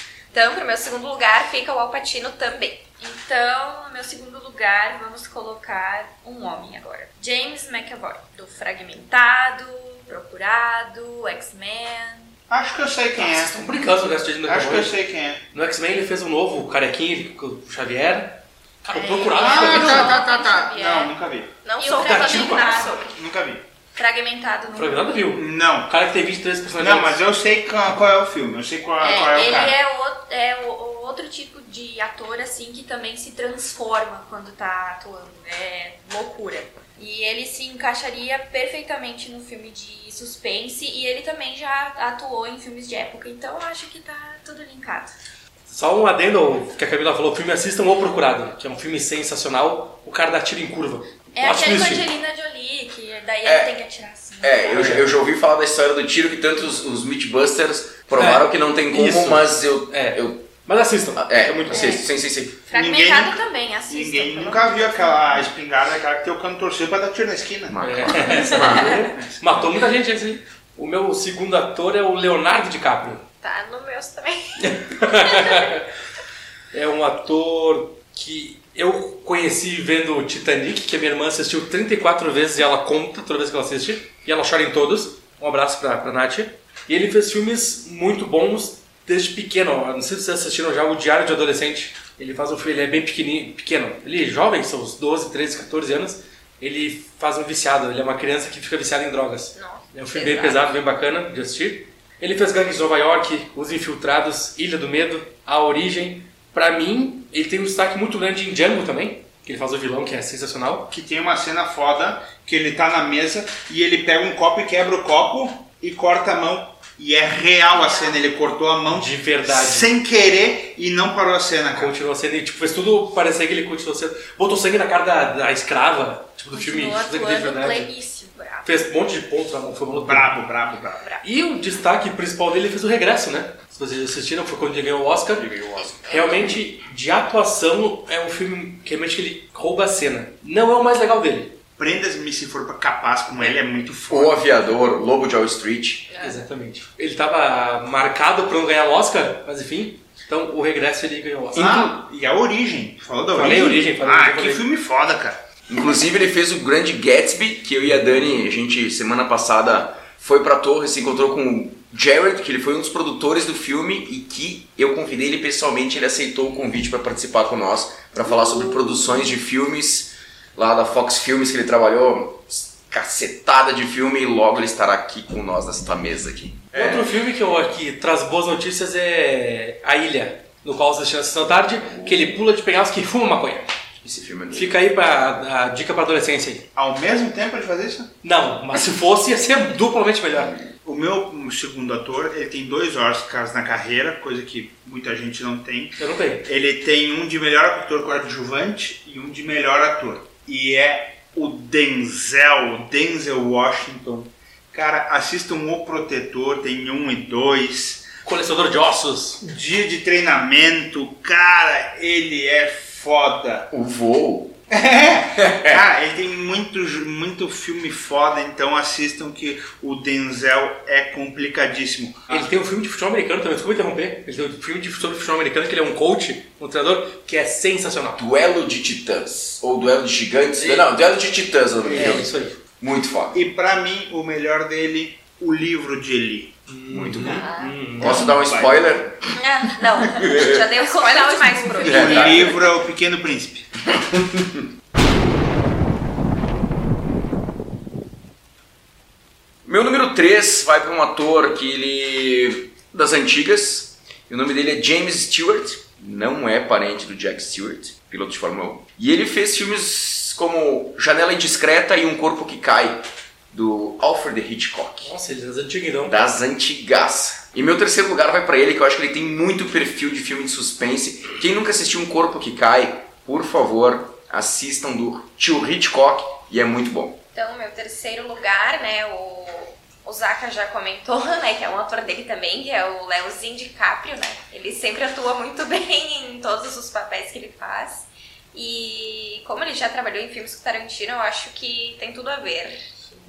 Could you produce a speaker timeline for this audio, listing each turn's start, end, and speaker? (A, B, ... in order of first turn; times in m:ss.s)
0:00.3-0:02.8 A
0:03.0-0:12.4 B
0:12.5-0:13.5 C
0:13.2-0:14.9 D
0:14.4-0:15.4 C
0:15.5-0:20.2 D
0:18.9-0:21.1 B
0:19.4-0:21.5 C
0:21.6-0:23.1 A
0:21.8-0:23.1 B
0:21.9-0:22.9 D
0:23.1-0:23.6 C
0:24.0-0:25.2 B
0:24.7-0:27.2 D
0:25.3-0:25.9 C
0:26.8-0:29.8 C
0:29.0-0:45.1 B
0:45.7-0:52.0 D
0:51.3-0:54.9 B
0:53.4-0:53.7 E
0:54.4-1:00.5 E
0:54.7-0:55.1 D
0:58.1-1:02.0 D
1:01.1-1:02.6 E
1:01.7-1:02.0 B
1:02.7-1:05.5 B
1:02.7-1:09.7 C
1:07.7-1:09.1 E
1:07.8-1:13.2 D
1:13.4-1:15.5 A
1:14.6-1:15.9 D
1:16.7-1:50.9 D
1:39.5-1:40.7 A
1:50.9-2:01.9 C
1:57.7-1:58.2 B
1:58.9-1:59.9 D
2:01.7-2:07.9 D
2:06.5-2:08.7 B
2:08.6-2:10.4 D
2:09.9-2:11.1 C
2:11.2-2:15.5 D
2:15.3-2:16.6 E
2:16.1-2:21.6 D
2:21.8-2:24.4 C
2:24.1-2:26.1 E
2:26.1-2:26.4 A
2:26.2-2:32.0 D
2:31.5-2:35.4 C
2:33.3-2:34.6 D
2:35.7-2:57.1 E
2:56.7-3:03.7 D
3:01.8-3:02.4 E
3:04.0-3:04.8 E
3:04.5-3:06.6 D
3:06.8-3:08.1 C
3:08.2-3:10.6 D
3:10.8-3:28.1 C
3:16.0-3:16.5 D
3:28.2-3:29.4 D
3:29.4-3:33.7 C
3:33.7-3:34.6 E
3:34.7-3:42.5 C
3:35.4-3:35.8 E
3:42.3-3:48.2 D
3:48.2-3:53.4 E
3:50.6-3:50.9 D
3:51.8-3:52.2 C
3:51.8-3:52.6 D
3:53.3-3:56.5 C
3:56.7-3:58.2 D
3:56.9-3:59.3 E
3:57.3-3:57.7 A
3:58.0-3:58.9 C
3:59.4-4:02.7 A
3:59.6-4:00.1 B
4:00.0-4:00.7 E
4:00.8-4:02.4 B
4:01.8-4:02.5 E
4:01.8-4:03.7 C
4:03.9-4:04.7 E
4:09.6-4:25.1 E
4:25.0-4:26.2 D
4:26.0-4:37.2 E
4:37.3-4:52.8 A